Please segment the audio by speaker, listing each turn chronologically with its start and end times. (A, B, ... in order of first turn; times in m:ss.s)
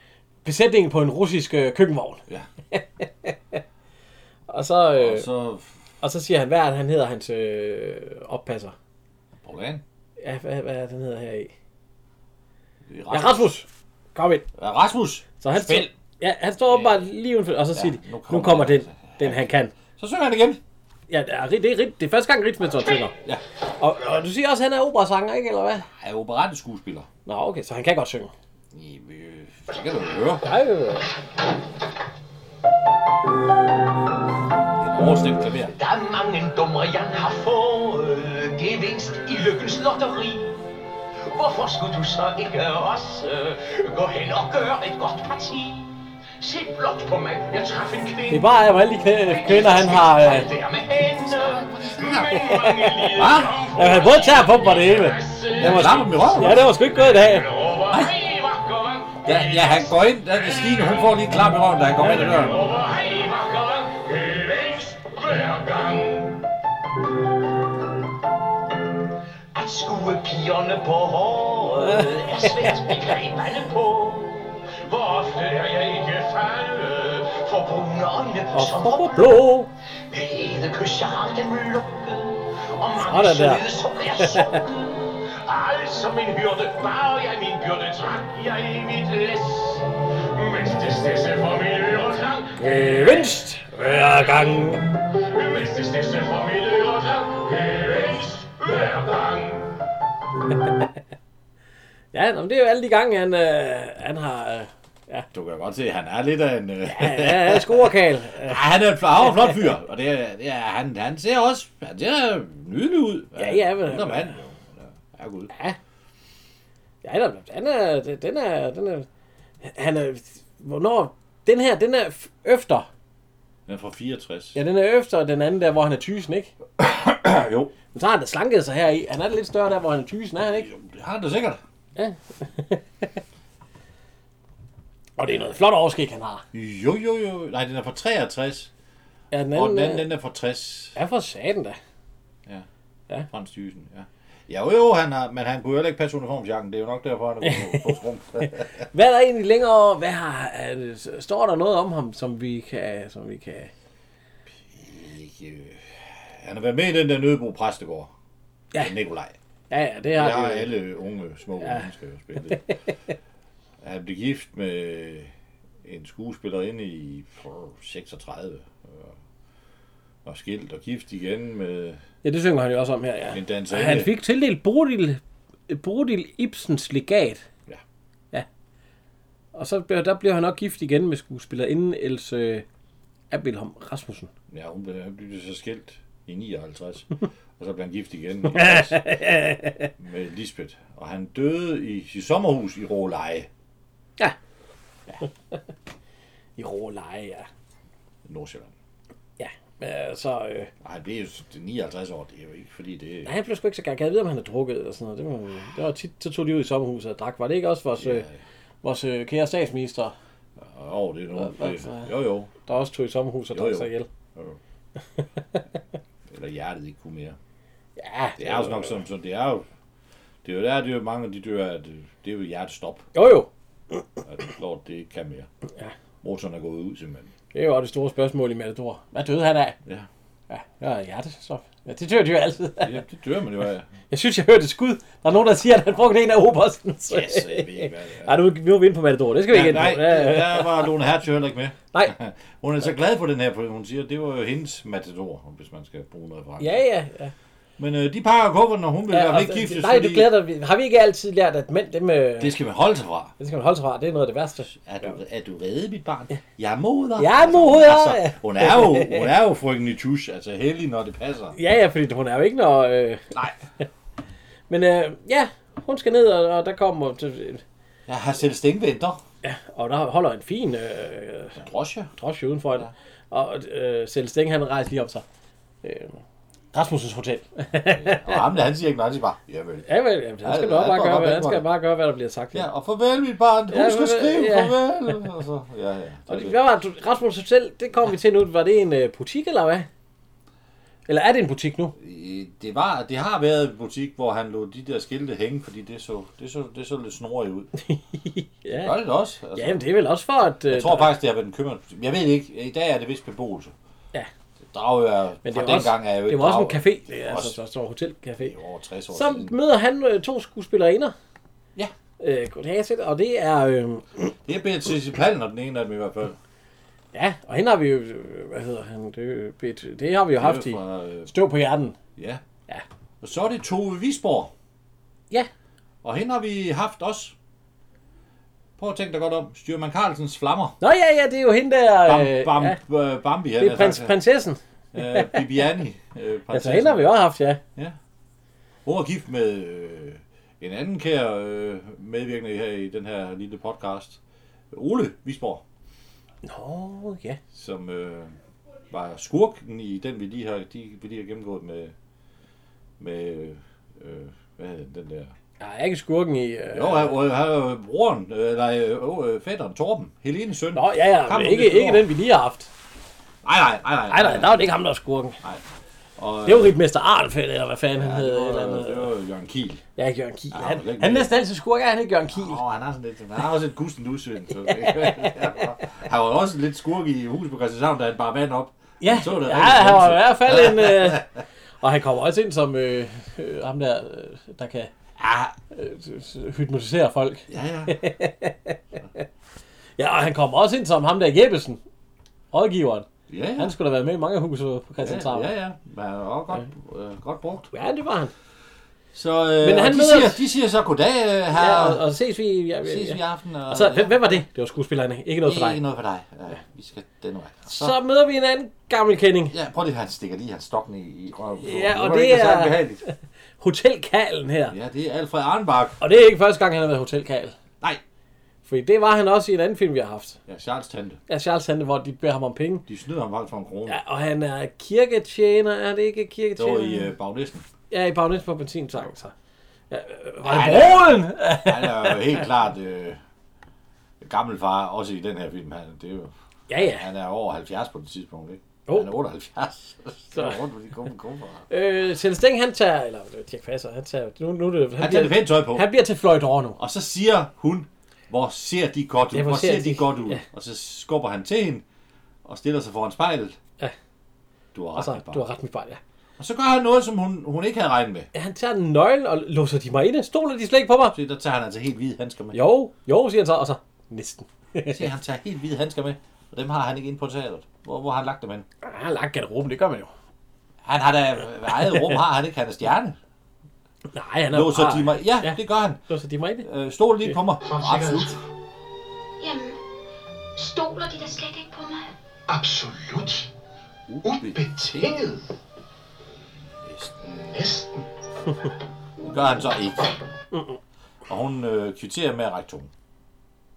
0:00.4-0:03.6 A
0:04.5-0:05.3 A
0:04.9-0:05.7 B
0:06.0-0:08.8 A
0:09.4-0:09.8 B
0:10.2-0:11.5 A
0:12.9-0:13.5 B
0:13.1-0:14.5 A
0:14.6-0:15.9 B
0:15.4-0:19.7 A
0:16.7-0:17.0 B
0:17.7-0:20.6 B
0:21.1-0:23.2 A
0:23.8-0:25.9 A
0:25.9-0:27.1 B
0:27.3-0:28.3 A
0:28.7-0:30.5 B
0:30.4-0:31.1 A
0:34.8-0:35.8 B
0:35.7-0:40.6 C
0:41.3-0:48.5 C
0:48.3-0:50.5 A
0:49.1-1:01.2 C
0:51.5-0:52.4 B
0:52.5-0:53.2 A
0:53.1-0:53.6 B
0:53.8-0:57.5 A
0:55.6-0:56.7 B
0:59.2-1:02.6 B
1:02.0-1:06.4 C
1:09.5-1:19.4 C
1:11.8-1:12.9 A
1:18.5-1:19.7 A
1:20.1-1:39.8 C
1:23.0-1:23.7 A
1:24.2-1:24.6 A
1:32.6-1:34.9 A
1:40.5-1:40.9 A
1:42.1-1:45.3 A
1:45.3-1:55.5 B
1:46.9-1:48.6 A
1:49.2-1:49.7 A
1:53.4-1:54.4 A
1:55.5-1:55.8 A
1:57.0-1:59.1 A
1:59.6-2:02.9 A
2:03.7-2:04.6 B
2:04.5-2:06.5 A
2:06.8-2:07.7 B
2:07.9-2:10.7 A
2:10.4-2:11.6 B
2:12.0-2:13.1 A
2:15.2-2:16.4 A
2:16.5-2:18.7 B
2:19.3-2:20.1 A
2:19.5-2:21.0 B
2:21.0-2:21.8 A
2:23.3-2:28.9 B
2:27.4-2:28.0 A
2:28.9-2:33.7 A
2:34.7-2:38.1 B
2:38.8-2:39.4 B
2:39.7-2:40.7 A
2:40.2-2:42.7 B
2:41.6-2:41.9 A
2:43.8-2:45.3 B
2:45.8-2:49.2 B
2:50.2-2:52.0 B
2:52.2-2:57.4 A
2:53.3-2:54.1 B
2:59.5-3:02.6 A
3:03.3-3:04.3 A
3:04.5-3:07.1 B
3:07.6-3:09.0 B
3:08.5-3:09.9 A
3:10.0-3:13.5 B
3:16.6-3:17.5 A
3:18.2-3:18.7 B
3:19.4-3:20.7 A
3:20.8-3:23.3 B
3:23.2-3:28.3 A
3:28.0-3:28.4 B
3:28.8-3:30.1 A
3:30.6-3:32.5 B
3:31.4-3:32.1 A
3:32.6-3:34.1 A
3:33.5-3:34.6 B
3:35.2-3:35.6 A
3:36.3-3:37.4 B
3:38.0-3:39.0 A
3:38.4-3:39.7 B
3:40.4-3:43.1 B
3:43.1-3:44.0 A
3:44.3-3:45.5 B
3:46.2-3:47.3 B
3:47.5-3:49.8 A
3:50.5-3:53.0 A
3:52.8-3:53.9 B
3:54.1-4:00.9 A
3:57.1-3:58.4 B
3:59.5-4:06.8 B
4:06.6-4:07.3 A
4:07.8-4:10.3 B
4:09.1-4:12.6 A
4:12.4-4:13.4 B
4:13.4-4:15.1 A
4:14.7-4:21.6 B
4:17.2-4:19.3 A
4:21.6-4:23.3 A
4:24.7-4:27.6 A
4:28.1-4:29.2 B
4:29.4-4:31.6 A
4:31.6-4:32.1 B
4:32.2-4:35.2 A
4:35.8-4:36.2 A
4:36.7-4:38.4 A
4:37.9-4:39.9 B
4:39.9-4:42.7 A
4:40.4-4:41.7 B
4:42.5-4:46.6 B
4:43.7-4:44.8 A
4:46.3-4:49.9 A
4:51.1-4:52.0 A
4:52.0-4:57.7 B
4:57.8-4:58.9 A
4:58.8-4:59.9 B
4:59.6-5:01.1 A
5:00.7-5:03.7 B
5:04.7-5:07.6 B
5:05.4-5:08.5 A
5:08.4-5:09.6 B
5:09.1-5:11.2 A
5:12.2-5:14.3 A
5:14.4-5:16.4 B
5:17.1-5:22.0 A
5:20.4-5:21.3 B
5:22.2-5:22.4 B
5:23.2-5:24.5 B
5:26.0-5:27.4 B
5:28.8-5:30.8 B
5:30.8-5:32.8 A
5:32.0-5:34.2 B
5:33.6-5:35.4 A
5:34.9-5:37.2 B
5:36.5-5:37.6 A
5:38.9-5:44.2 B
5:44.7-5:45.6 B
5:46.4-5:47.4 A
5:47.5-5:48.3 B
5:48.9-5:51.9 B
5:53.0-5:55.3 B
5:55.6-5:57.1 A
5:56.7-6:02.1 B
6:00.7-6:02.7 A
6:03.4-6:04.7 B
6:04.1-6:05.4 A
6:06.2-6:06.8 B
6:06.4-6:09.1 A
6:07.9-6:09.8 B
6:10.0-6:12.6 A
6:10.5-6:11.4 B
6:12.3-6:21.4 B
6:14.7-6:15.5 A
6:19.0-6:21.2 A
6:21.8-6:24.9 A
6:25.2-6:25.6 B
6:25.7-6:29.2 A
6:27.5-6:28.0 B
6:30.0-6:31.8 A
6:32.5-6:35.5 A
6:33.3-6:33.7 B
6:35.0-6:37.7 B
6:37.7-6:38.3 A
6:39.1-6:42.0 B
6:39.6-6:40.4 A
6:41.5-6:45.8 A
6:42.8-6:44.4 B
6:45.4-6:48.0 B
6:47.7-6:49.5 A
6:49.5-6:53.0 B
6:51.6-6:54.8 A
6:54.7-6:56.0 B
6:56.0-6:57.6 A
6:58.6-7:00.4 A
7:00.5-7:01.2 B
7:01.3-7:02.8 A
7:02.9-7:04.0 B
7:03.9-7:07.1 A
7:06.6-7:07.7 B
7:07.9-7:09.3 A
7:09.9-7:12.4 A
7:10.4-7:13.2 B
7:14.2-7:21.7 B
7:16.7-7:17.1 A
7:21.7-7:26.8 A
7:25.0-7:25.9 B
7:26.8-7:31.8 B
7:29.3-7:30.4 A
7:32.4-7:33.6 B
7:34.7-7:35.4 B
7:35.0-7:36.0 A
7:36.4-7:38.3 B
7:38.3-7:41.2 A
7:41.1-7:42.6 B
7:42.5-7:45.1 A
7:44.9-7:48.7 B
7:48.8-7:50.1 A
7:50.8-7:53.2 B
7:51.7-7:52.2 A
7:54.1-7:56.7 A
7:54.5-7:56.0 B
7:56.6-7:58.4 B
7:57.6-7:58.4 C
7:59.4-7:59.8 D
8:00.6-8:02.1 D
8:02.5-8:03.5 C
8:04.1-8:04.6 B
8:04.2-8:05.4 C
8:06.8-8:07.6 B
8:07.5-8:08.0 C
8:09.2-8:10.1 B
8:10.5-8:10.8 A
8:11.3-8:12.9 B